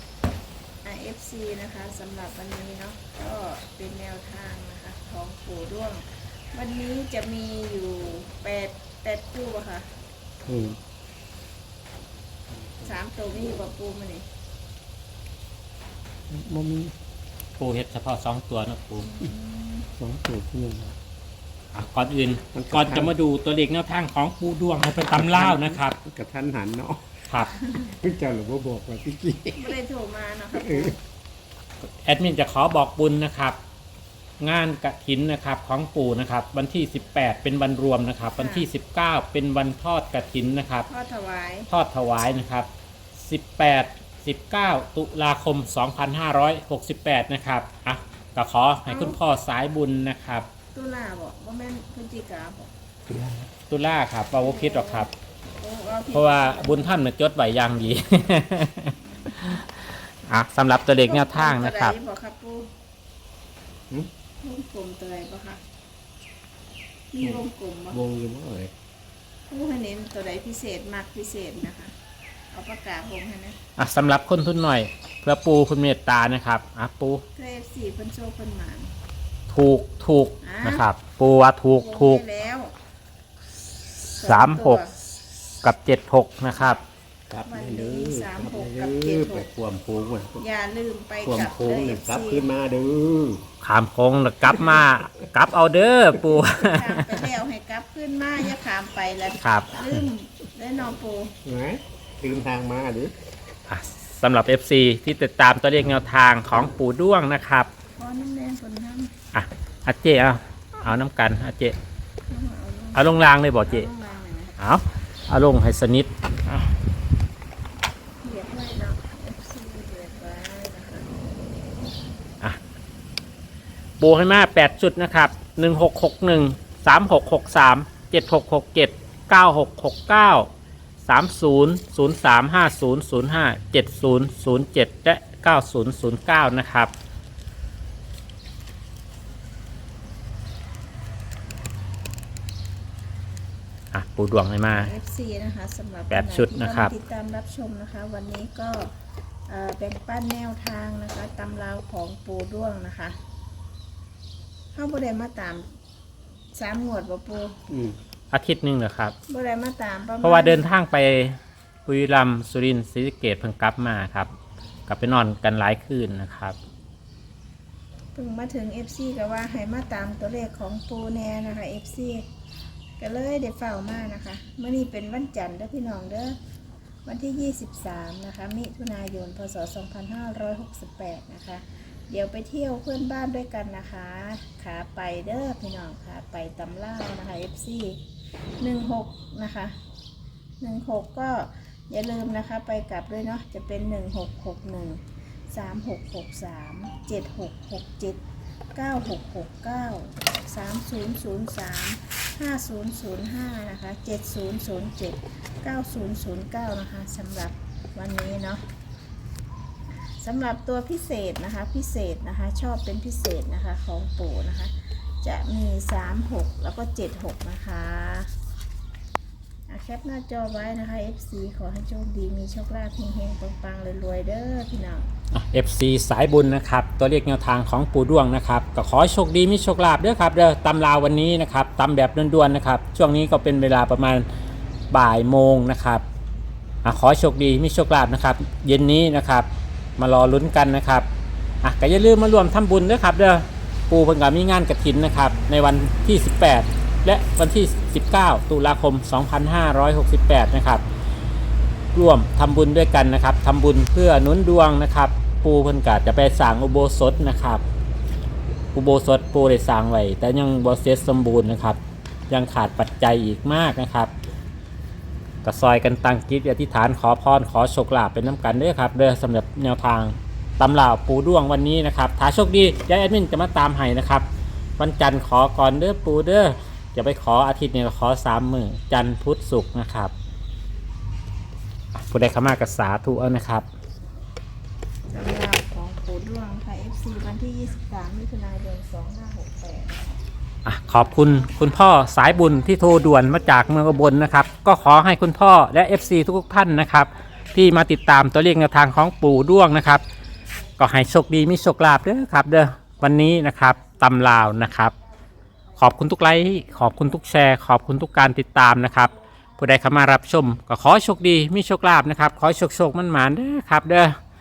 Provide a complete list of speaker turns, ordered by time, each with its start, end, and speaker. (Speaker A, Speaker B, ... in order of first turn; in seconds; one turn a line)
Speaker A: 0.8-9.9
Speaker B: 10.5-10.8
Speaker A: 12.8-14.2
Speaker B: 16.3-16.9
Speaker C: 17.6-19.1
Speaker A: 19.0-19.9
Speaker B: 20.0-21.0
Speaker C: 21.7-26.0
Speaker B: 22.5-23.1
Speaker B: 25.1-29.8
Speaker C: 27.3-27.6
Speaker A: 29.6-31.0
Speaker B: 30.6-30.9
Speaker C: 32.0-33.6
Speaker C: 34.4-40.9
Speaker A: 38.3-38.7
Speaker A: 40.9-41.7
Speaker C: 41.7-50.5
Speaker A: 48.9-49.2
Speaker A: 50.7-52.7
Speaker B: 53.1-53.5
Speaker C: 53.7-55.1
Speaker A: 54.4-57.0
Speaker C: 56.1-59.6
Speaker C: 60.3-62.0
Speaker A: 61.0-62.7
Speaker A: 64.4-65.6
Speaker A: 67.1-68.0
Speaker B: 67.2-68.7
Speaker A: 69.5-71.9
Speaker A: 72.5-73.6
Speaker C: 73.8-77.2
Speaker A: 77.3-78.9
Speaker C: 79.5-82.2
Speaker A: 80.4-80.9
Speaker A: 81.8-82.7
Speaker C: 84.1-84.8
Speaker A: 84.2-84.9
Speaker C: 85.6-86.8
Speaker B: 87.3-90.5
Speaker A: 87.5-89.5
Speaker A: 90.4-92.5
Speaker B: 91.2-93.5
Speaker C: 93.6-97.2
Speaker B: 94.5-94.9
Speaker A: 96.6-101.4
Speaker C: 99.4-100.0
Speaker B: 101.5-103.1
Speaker C: 103.7-107.7
Speaker A: 108.0-109.1
Speaker C: 109.3-111.8
Speaker A: 112.3-114.6
Speaker C: 113.0-113.9
Speaker C: 114.6-116.7
Speaker A: 118.2-121.1
Speaker C: 124.0-130.5
Speaker C: 131.1-136.9
Speaker C: 143.9-144.9
Speaker A: 144.7-148.9
Speaker C: 146.1-146.9
Speaker A: 149.5-153.2
Speaker A: 154.7-155.7
Speaker A: 156.6-157.6
Speaker B: 157.7-158.0
Speaker C: 158.3-159.2
Speaker A: 159.3-160.7
Speaker C: 160.2-164.3
Speaker C: 164.9-166.6
Speaker A: 168.1-172.3
Speaker A: 173.0-176.4
Speaker A: 177.1-188.0
Speaker A: 188.6-189.7
Speaker A: 190.6-198.2
Speaker A: 198.8-208.6
Speaker A: 210.2-218.3
Speaker A: 219.7-225.1
Speaker C: 225.3-234.3
Speaker C: 234.9-236.1
Speaker C: 236.8-241.1
Speaker C: 241.6-250.8
Speaker C: 251.9-257.6
Speaker C: 258.7-261.8
Speaker C: 262.3-264.1
Speaker C: 265.4-274.3
Speaker C: 274.8-280.1
Speaker C: 282.1-283.6
Speaker A: 285.1-290.1
Speaker C: 290.6-300.0
Speaker A: 290.9-294.9
Speaker C: 300.8-304.9
Speaker C: 305.8-314.2